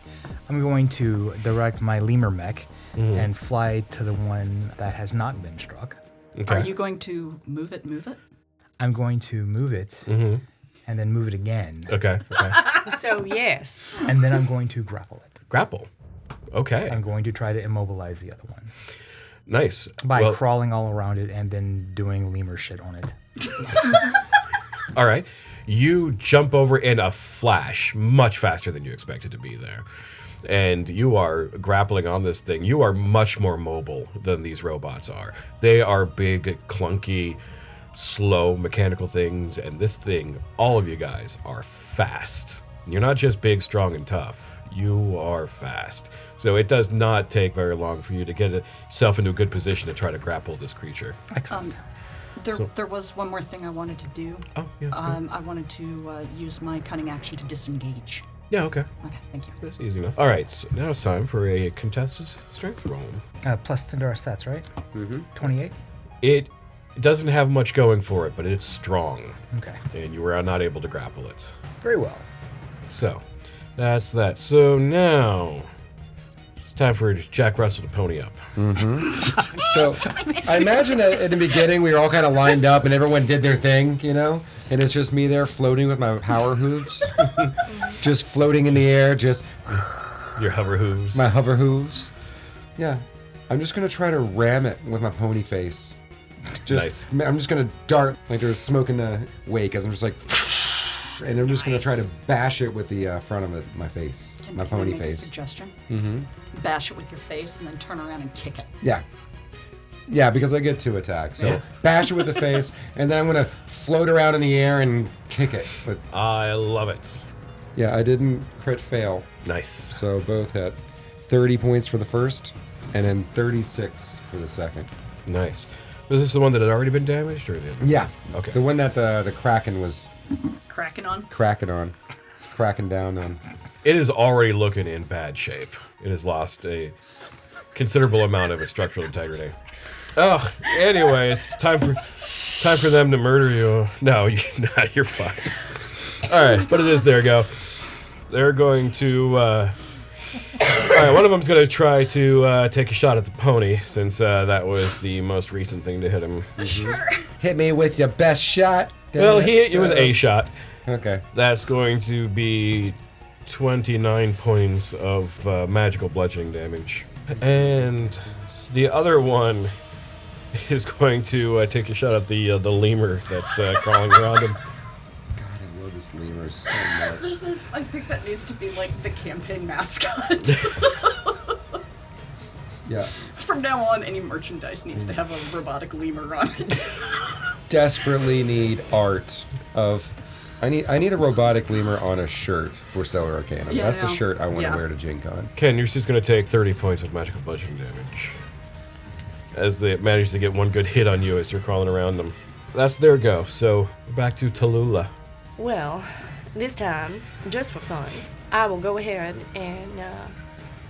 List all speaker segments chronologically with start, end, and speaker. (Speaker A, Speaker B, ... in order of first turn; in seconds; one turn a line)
Speaker A: 0.5-6.0
Speaker B: 3.0-3.3
Speaker B: 6.3-6.7
Speaker C: 6.5-8.2
Speaker A: 8.8-10.1
Speaker B: 10.1-10.4
Speaker A: 10.9-12.0
Speaker B: 11.9-12.6
Speaker D: 12.8-14.0
Speaker A: 14.0-15.4
Speaker B: 15.5-15.9
Speaker B: 16.5-17.0
Speaker A: 16.9-18.7
Speaker B: 19.5-20.4
Speaker A: 20.0-23.1
Speaker B: 24.9-29.8
Speaker B: 30.4-37.4
Speaker B: 37.9-51.2
Speaker A: 51.3-51.8
Speaker C: 51.5-51.7
Speaker C: 52.4-58.2
Speaker B: 54.5-55.2
Speaker B: 58.5-58.9
Speaker C: 59.0-59.6
Speaker B: 59.6-63.2
Speaker A: 63.4-64.7
Speaker E: 64.9-65.3
Speaker A: 65.3-65.8
Speaker B: 66.2-69.4
Speaker A: 69.5-69.8
Speaker B: 69.9-71.5
Speaker A: 71.8-72.2
Speaker B: 72.9-73.2
Speaker B: 73.8-75.7
Speaker B: 76.7-78.4
Speaker E: 78.5-90.1
Speaker C: 79.3-81.0
Speaker D: 87.7-88.0
Speaker B: 88.7-89.0
Speaker B: 90.3-91.3
Speaker E: 91.1-92.1
Speaker E: 92.8-96.0
Speaker E: 96.6-105.3
Speaker B: 96.7-97.1
Speaker C: 101.4-102.0
Speaker C: 104.4-105.8
Speaker E: 105.9-106.3
Speaker C: 106.5-108.7
Speaker E: 110.1-116.0
Speaker B: 116.1-117.2
Speaker E: 117.8-119.3
Speaker B: 119.4-120.0
Speaker E: 119.9-124.9
Speaker B: 125.2-128.6
Speaker E: 127.8-130.1
Speaker C: 130.7-131.3
Speaker E: 131.3-133.4
Speaker B: 133.8-136.9
Speaker B: 137.7-139.5
Speaker B: 140.2-142.0
Speaker B: 142.6-147.5
Speaker B: 148.3-149.8
Speaker B: 150.7-156.6
Speaker E: 156.6-160.2
Speaker C: 156.6-157.2
Speaker B: 159.2-160.5
Speaker E: 160.8-161.2
Speaker B: 161.3-169.7
Speaker B: 170.5-174.6
Speaker E: 175.3-177.4
Speaker C: 176.9-181.6
Speaker E: 182.8-183.1
Speaker C: 183.3-187.3
Speaker E: 187.7-195.5
Speaker C: 193.7-194.8
Speaker B: 195.6-198.4
Speaker B: 199.5-205.1
Speaker D: 205.6-210.3